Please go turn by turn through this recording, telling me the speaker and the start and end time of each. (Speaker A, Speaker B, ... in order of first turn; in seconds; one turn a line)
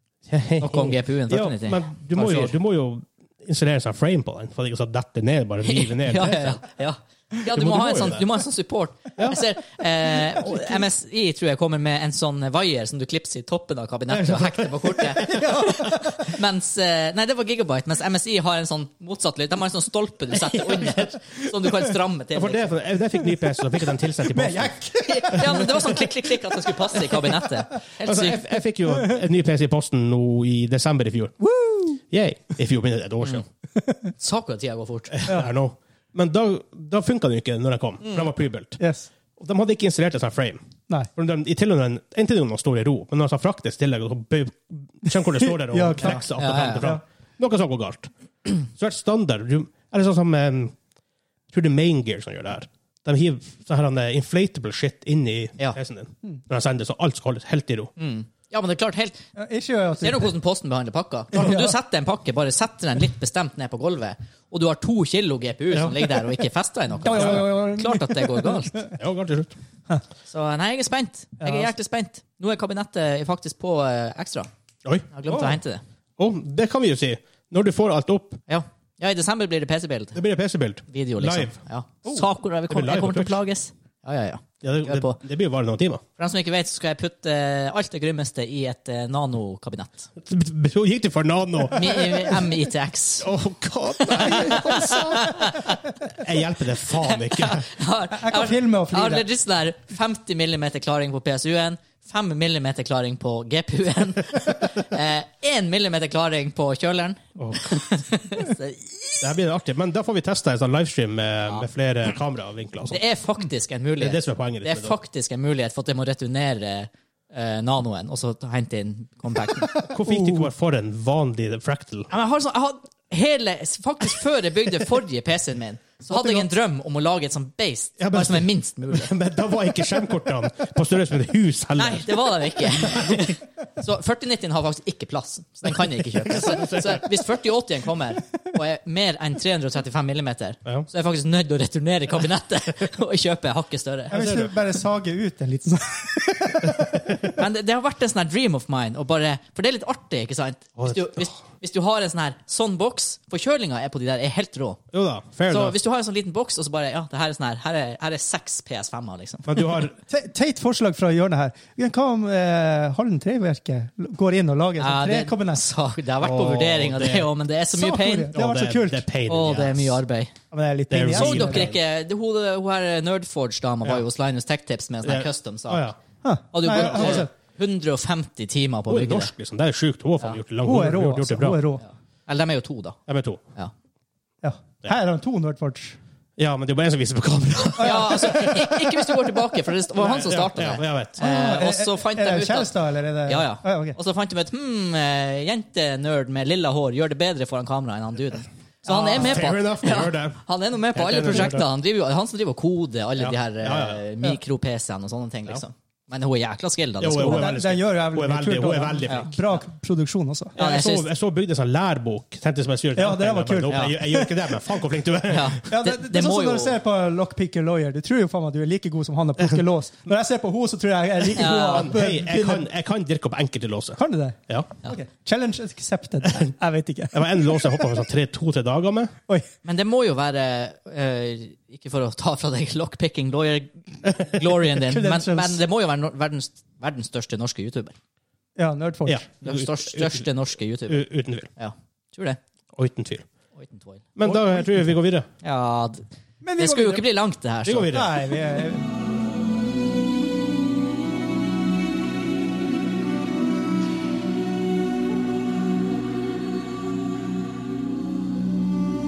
Speaker A: 0.3-6.6
Speaker B: 0.6-2.5
Speaker B: 5.6-22.7
Speaker A: 7.5-8.2
Speaker A: 14.2-15.5
Speaker C: 15.3-16.0
Speaker A: 22.3-24.7
Speaker C: 24.3-26.1
Speaker B: 25.1-28.4
Speaker A: 28.0-31.4
Speaker C: 31.4-32.0
Speaker A: 32.1-33.5
Speaker B: 34.2-35.2
Speaker A: 35.1-38.8
Speaker C: 38.8-39.1
Speaker A: 39.4-40.6
Speaker A: 41.1-50.7
Speaker C: 45.4-47.0
Speaker B: 46.0-46.9
Speaker A: 51.5-57.9
Speaker B: 58.0-59.2
Speaker C: 59.4-60.3
Speaker B: 60.0-68.9
Speaker C: 61.3-61.7
Speaker C: 67.0-68.9
Speaker A: 69.0-69.5
Speaker B: 70.3-74.5
Speaker C: 71.4-71.7
Speaker B: 75.1-75.8
Speaker A: 76.2-78.4
Speaker B: 78.5-80.2
Speaker A: 80.2-81.6
Speaker B: 80.9-85.2
Speaker A: 82.7-83.4
Speaker A: 84.6-86.0
Speaker B: 86.2-90.1
Speaker A: 90.2-92.4
Speaker B: 91.7-93.3
Speaker A: 93.2-95.5
Speaker B: 94.0-95.8
Speaker C: 94.3-95.3
Speaker A: 96.1-97.7
Speaker B: 97.0-109.2
Speaker C: 98.1-99.3
Speaker A: 107.4-107.8
Speaker A: 109.2-113.0
Speaker B: 112.9-119.8
Speaker A: 114.0-115.0
Speaker A: 119.7-122.1
Speaker C: 120.1-120.5
Speaker B: 122.1-129.1
Speaker A: 126.1-126.5
Speaker A: 128.0-133.2
Speaker B: 131.8-144.2
Speaker A: 136.3-137.1
Speaker C: 144.1-147.2
Speaker A: 144.1-144.5
Speaker B: 147.3-154.8
Speaker A: 150.8-151.3
Speaker A: 154.9-155.8
Speaker B: 155.5-159.7
Speaker A: 159.4-159.9
Speaker C: 160.1-165.6
Speaker B: 164.8-168.3
Speaker A: 166.2-167.3
Speaker C: 167.7-169.1
Speaker A: 168.3-170.0
Speaker B: 169.3-170.3
Speaker C: 170.5-171.7
Speaker A: 170.9-171.7
Speaker B: 171.1-175.9
Speaker A: 175.0-176.0
Speaker C: 176.2-177.3
Speaker B: 176.5-179.3
Speaker A: 176.7-177.3
Speaker A: 178.9-181.6
Speaker C: 180.7-181.8
Speaker B: 182.3-183.0
Speaker A: 183.1-183.4
Speaker C: 184.4-186.0
Speaker A: 186.4-188.8
Speaker B: 187.8-192.7
Speaker C: 187.8-188.4
Speaker A: 190.0-191.2
Speaker C: 191.2-194.0
Speaker B: 193.3-207.5
Speaker C: 198.9-199.4
Speaker A: 199.1-200.4
Speaker A: 200.9-201.7
Speaker A: 203.2-204.0
Speaker A: 207.0-209.3
Speaker C: 207.2-210.6
Speaker A: 210.6-215.6
Speaker B: 210.6-211.1
Speaker C: 213.0-214.6
Speaker B: 215.3-216.8
Speaker C: 215.7-222.7
Speaker B: 221.4-221.9
Speaker A: 221.4-224.7
Speaker C: 224.0-227.9
Speaker A: 227.1-229.1
Speaker B: 229.6-237.9
Speaker C: 234.8-235.6
Speaker C: 238.6-239.2
Speaker A: 239.1-240.3
Speaker B: 239.4-242.4
Speaker A: 240.9-241.5
Speaker A: 242.7-243.2
Speaker B: 243.6-244.1
Speaker A: 244.2-245.3
Speaker C: 244.3-244.7
Speaker B: 245.4-246.1
Speaker C: 246.4-247.1
Speaker B: 246.6-247.9
Speaker A: 247.7-248.1
Speaker C: 247.9-249.0